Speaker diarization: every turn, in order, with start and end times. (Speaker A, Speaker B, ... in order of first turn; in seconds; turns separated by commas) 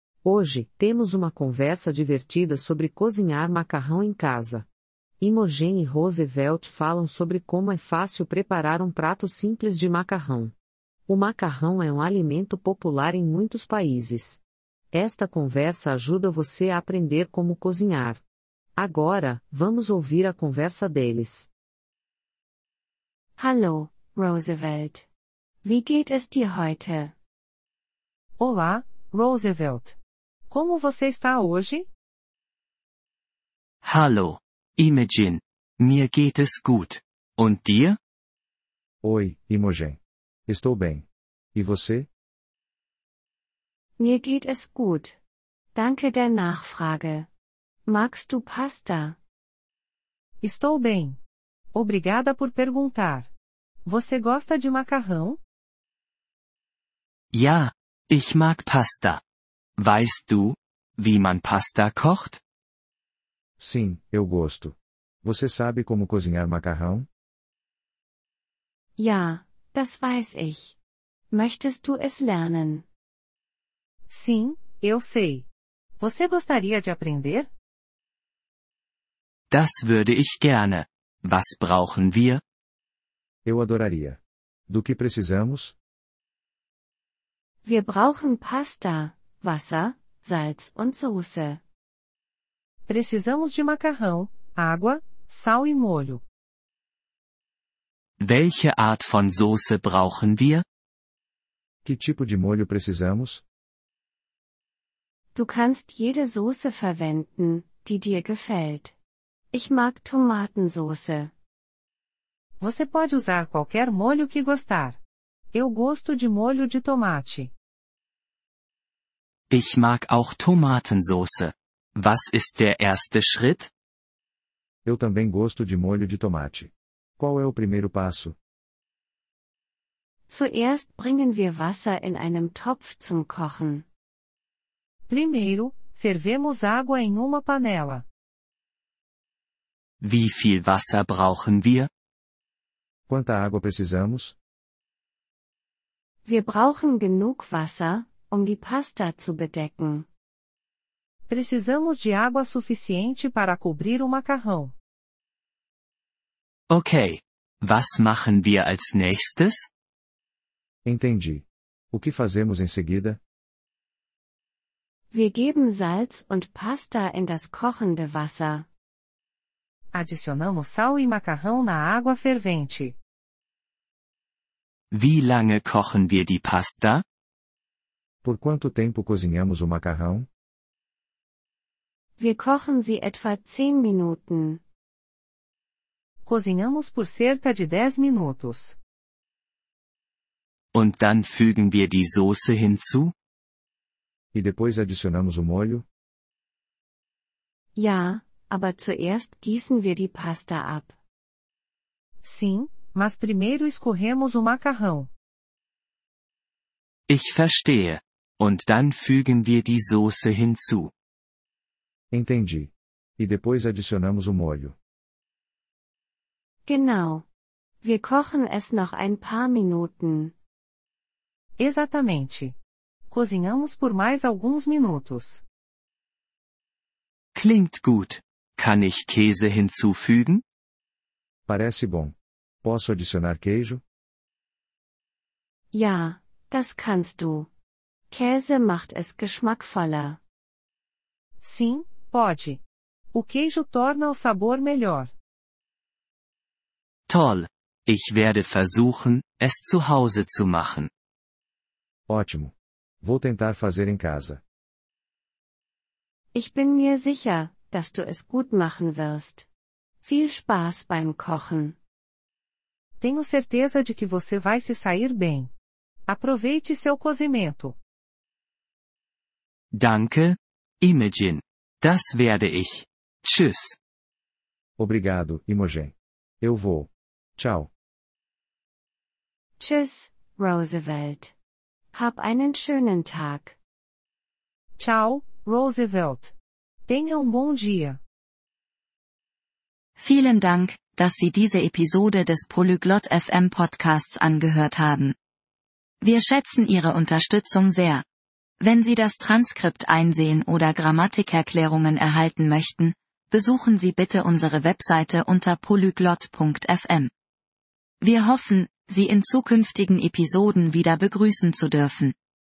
Speaker A: 0.2-4.7, Speaker A: 5.2-10.5, Speaker A: 11.1-14.4, Speaker A: 14.9-18.2, Speaker A: 18.8-21.5, Speaker B: 23.4-25.1, Speaker B: 25.6-27.1, Speaker C: 28.4-29.9, Speaker C: 30.5-31.9, Speaker D: 33.8-38.0, Speaker E: 39.0-42.1, Speaker B: 44.0-45.1, Speaker B: 45.7-47.3, Speaker B: 47.9-49.2, Speaker C: 50.4-51.2, Speaker C: 51.7-53.3, Speaker C: 53.9-55.4, Speaker D: 57.3-59.2, Speaker D: 59.8-62.4, Speaker E: 63.6-67.1, Speaker B: 69.0-70.8, Speaker B: 71.3-72.8, Speaker C: 74.1-75.5, Speaker C: 76.0-77.5, Speaker D: 79.5-82.4, Speaker E: 83.5-85.7, Speaker B: 87.6-91.6, Speaker C: 92.9-96.2, Speaker D: 98.2-100.6, Speaker E: 101.8-103.4, Speaker B: 105.3-108.9, Speaker B: 109.5-111.3, Speaker C: 112.6-115.0, Speaker C: 115.5-117.5, Speaker D: 119.5-123.7, Speaker E: 124.8-128.3, Speaker B: 130.3-133.8, Speaker C: 135.1-138.0, Speaker D: 140.0-141.9, Speaker E: 143.1-144.3, Speaker B: 146.2-150.1, Speaker C: 151.3-154.7, Speaker D: 156.7-159.7, Speaker E: 160.8-163.2, Speaker B: 165.1-168.7, Speaker C: 169.9-172.9, Speaker D: 174.9-177.0, Speaker E: 178.2-180.3, Speaker B: 182.2-184.6, Speaker C: 186.2-188.8, Speaker D: 190.7-193.1, Speaker E: 194.3-195.8, Speaker B: 197.8-200.9, Speaker C: 202.2-205.1, Speaker D: 207.1-210.9, Speaker E: 212.1-214.8, Speaker B: 216.7-217.2, Speaker B: 217.8-220.3, Speaker C: 221.6-222.5, Speaker C: 223.1-225.4, Speaker D: 227.3-230.4, Speaker E: 231.5-233.8, Speaker B: 235.7-237.5, Speaker B: 238.1-240.2, Speaker C: 241.4-242.6, Speaker C: 243.1-245.1, Speaker D: 247.1-250.9, Speaker E: 252.1-254.4, Speaker B: 256.3-259.5, Speaker B: 260.0-261.8, Speaker C: 263.0-265.5, Speaker C: 266.1-267.8, Speaker D: 269.7-273.8, Speaker E: 274.8-277.7, Speaker B: 279.6-281.3, Speaker B: 281.9-283.6, Speaker C: 284.8-286.3, Speaker C: 286.9-288.0, Speaker F: 290.0-295.1, Speaker F: 296.0-298.0, Speaker F: 298.6-307.1, Speaker F: 308.0-312.1